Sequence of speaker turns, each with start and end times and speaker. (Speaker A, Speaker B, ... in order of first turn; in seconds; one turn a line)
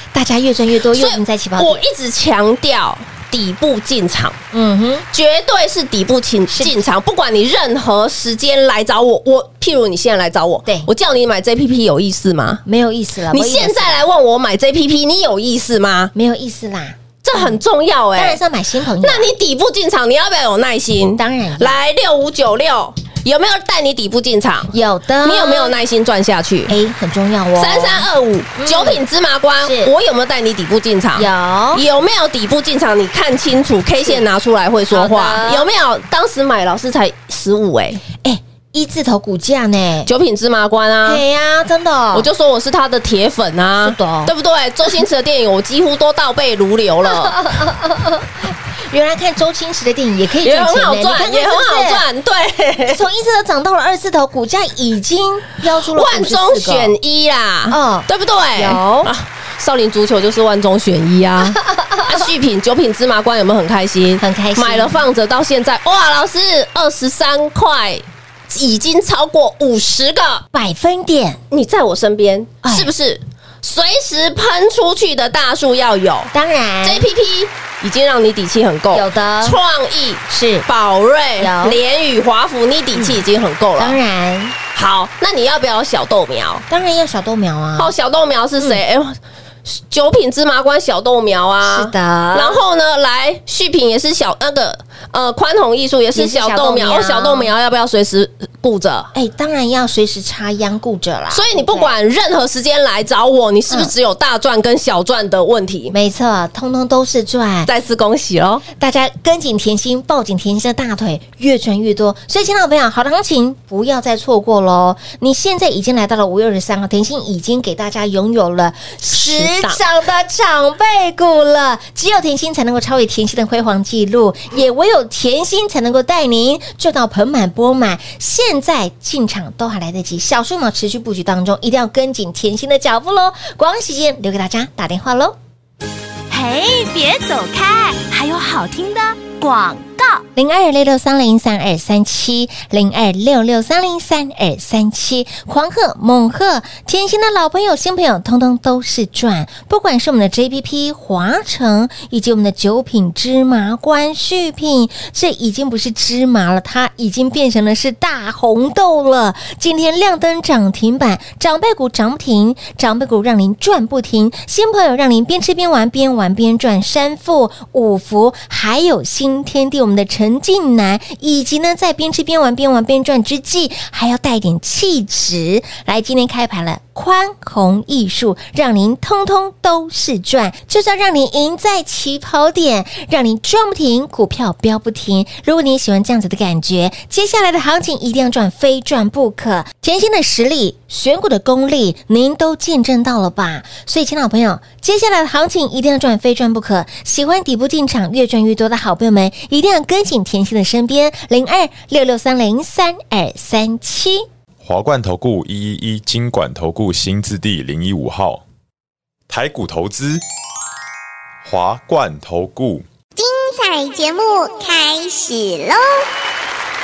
Speaker A: 0.1-1.8
Speaker B: 0.9-4.4
Speaker A: 4.5-5.0
Speaker B: 5.1-12.6
Speaker A: 6.5-6.8
Speaker A: 12.6-14.0
Speaker B: 13.3-16.1
Speaker A: 16.1-17.6
Speaker B: 17.2-18.4
Speaker A: 18.1-19.3
Speaker B: 19.0-26.8
Speaker A: 21.2-21.8
Speaker A: 24.7-25.8
Speaker A: 26.7-28.1
Speaker B: 27.6-38.0
Speaker A: 28.6-29.0
Speaker A: 29.6-29.9
Speaker A: 31.1-31.8
Speaker A: 34.9-35.7
Speaker A: 38.1-40.1
Speaker B: 40.0-41.2
Speaker A: 41.0-42.3
Speaker B: 42.1-47.4
Speaker A: 43.8-44.3
Speaker A: 47.1-52.0
Speaker B: 50.4-53.0
Speaker A: 52.9-56.9
Speaker B: 55.9-70.4
Speaker A: 57.7-59.1
Speaker A: 61.7-62.2
Speaker A: 64.2-65.0
Speaker A: 70.5-71.4
Speaker B: 71.5-76.3
Speaker A: 72.6-72.9
Speaker A: 76.3-77.1
Speaker B: 76.8-84.0
Speaker A: 78.9-79.6
Speaker A: 80.3-80.7
Speaker A: 81.4-81.8
Speaker A: 82.9-83.2
Speaker A: 83.8-84.5
Speaker B: 84.7-86.6
Speaker A: 86.7-87.9
Speaker B: 87.8-99.1
Speaker A: 91.6-92.6
Speaker A: 96.1-97.5
Speaker A: 99.1-101.9
Speaker B: 101.3-105.9
Speaker A: 105.9-107.7
Speaker B: 107.7-108.6
Speaker A: 108.7-135.4
Speaker B: 119.1-119.8
Speaker C: 136.3-140.2
Speaker A: 140.3-204.2
Speaker D: 204.6-208.4
Speaker D: 209.3-210.2
Speaker D: 211.4-212.8
Speaker E: 213.2-216.0